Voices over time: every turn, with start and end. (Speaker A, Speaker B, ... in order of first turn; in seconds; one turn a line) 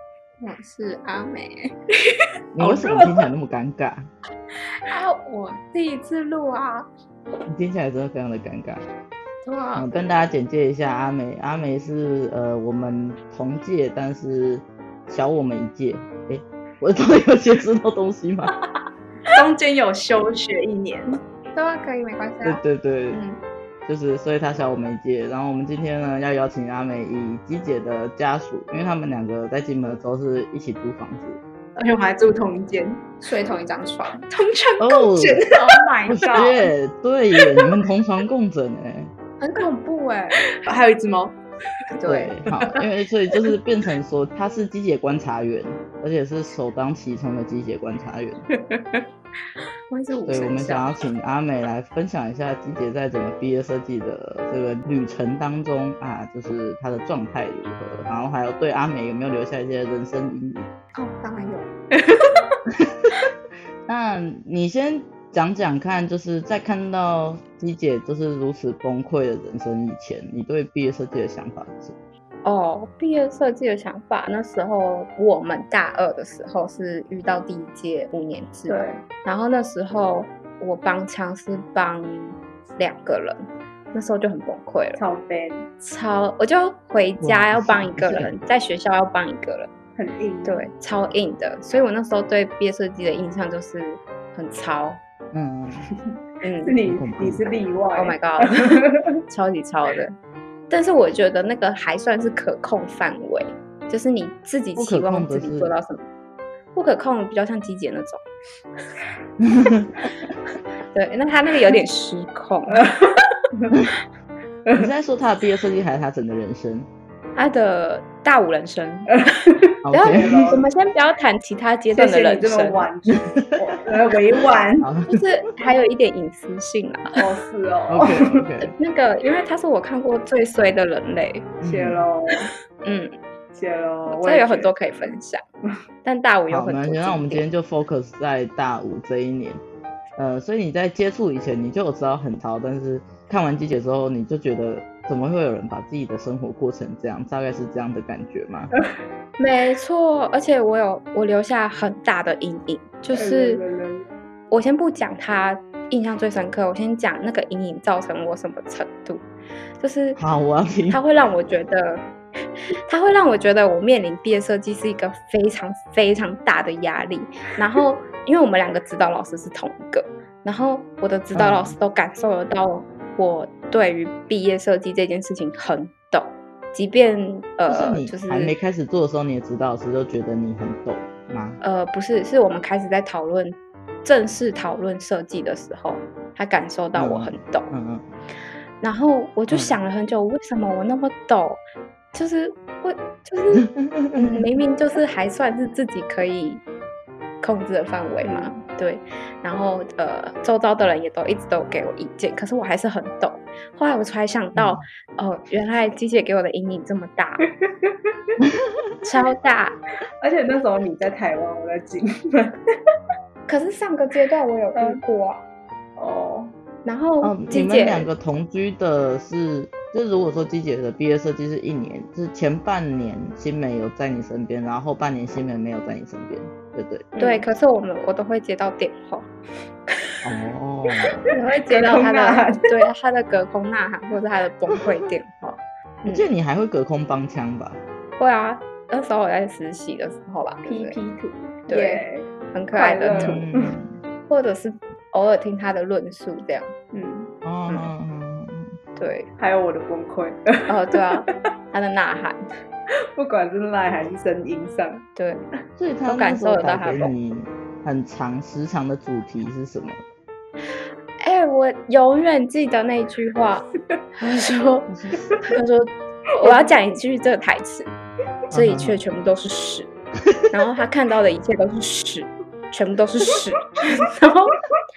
Speaker A: 0.4-1.7
Speaker B: 2.5-4.1
Speaker C: 2.6-3.3
Speaker A: 4.9-6.9
Speaker B: 7.5-8.8
Speaker A: 9.4-9.9
Speaker B: 9.8-18.5
Speaker C: 19.3-21.2
Speaker A: 21.6-23.4
Speaker B: 22.4-23.2
Speaker B: 23.9-31.4
Speaker C: 31.8-33.2
Speaker A: 33.2-36.7
Speaker B: 34.8-35.5
Speaker C: 35.2-35.9
Speaker B: 36.1-39.1
Speaker C: 37.4-37.7
Speaker A: 39.4-40.4
Speaker C: 40.5-41.4
Speaker A: 41.9-42.4
Speaker B: 42.1-48.5
Speaker C: 48.6-49.0
Speaker A: 49.9-51.0
Speaker B: 50.3-60.7
Speaker A: 61.0-61.7
Speaker C: 62.0-62.3
Speaker B: 63.9-72.0
Speaker A: 72.5-85.0
Speaker C: 78.7-79.0
Speaker C: 85.0-85.7
Speaker A: 85.8-89.7
Speaker B: 87.2-88.3
Speaker C: 90.0-90.7
Speaker A: 90.5-95.0
Speaker B: 95.3-95.9
Speaker A: 96.4-96.8
Speaker C: 96.6-99.1
Speaker B: 96.8-97.4
Speaker A: 98.0-100.2
Speaker A: 100.7-106.1
Speaker B: 104.8-105.7
Speaker A: 106.7-108.2
Speaker B: 109.4-109.9
Speaker A: 110.9-112.9
Speaker C: 112.7-113.7
Speaker C: 114.7-114.9
Speaker B: 114.8-116.9
Speaker A: 117.4-119.1
Speaker C: 119.1-120.6
Speaker B: 119.8-120.6
Speaker A: 119.9-122.9
Speaker C: 121.9-124.9
Speaker B: 124.8-125.1
Speaker A: 125.1-127.2
Speaker C: 127.2-128.4
Speaker B: 127.9-128.7
Speaker A: 128.7-131.5
Speaker B: 131.6-132.1
Speaker C: 131.6-132.5
Speaker A: 132.8-133.1
Speaker C: 133.5-135.2
Speaker A: 134.1-135.4
Speaker A: 136.0-137.4
Speaker B: 136.5-139.6
Speaker B: 140.2-148.7
Speaker A: 149.4-153.6
Speaker C: 153.1-154.0
Speaker A: 154.5-159.2
Speaker A: 159.8-160.2
Speaker B: 160.2-161.0
Speaker A: 160.9-162.0
Speaker A: 162.9-178.6
Speaker B: 171.3-171.8
Speaker B: 177.7-181.6
Speaker A: 181.6-187.7
Speaker B: 186.9-188.1
Speaker A: 188.8-191.6
Speaker B: 189.5-189.8
Speaker A: 192.1-196.6
Speaker B: 193.7-194.4
Speaker A: 197.4-207.4
Speaker C: 198.2-198.6
Speaker B: 204.6-204.8
Speaker C: 207.6-207.9
Speaker A: 209.0-209.8
Speaker C: 210.2-212.6
Speaker A: 213.5-215.4
Speaker C: 214.8-215.0
Speaker C: 216.0-216.6
Speaker A: 216.8-218.1
Speaker B: 217.2-227.1
Speaker C: 227.1-227.4
Speaker A: 227.2-229.3
Speaker B: 230.2-231.2
Speaker A: 231.3-236.3
Speaker C: 231.7-232.7
Speaker B: 236.1-237.8
Speaker A: 238.2-241.0
Speaker C: 240.7-243.7
Speaker A: 241.7-243.4
Speaker B: 243.1-244.0
Speaker A: 244.3-246.8
Speaker C: 246.9-247.3
Speaker B: 247.4-248.8
Speaker A: 249.0-249.3
Speaker C: 249.4-251.3
Speaker A: 250.7-252.5
Speaker C: 253.2-255.1
Speaker A: 255.2-255.4
Speaker B: 255.8-260.0
Speaker A: 256.1-257.1
Speaker A: 261.2-267.9
Speaker B: 264.9-265.3
Speaker C: 266.4-266.7
Speaker A: 268.5-269.9
Speaker B: 268.5-269.0
Speaker A: 270.5-274.6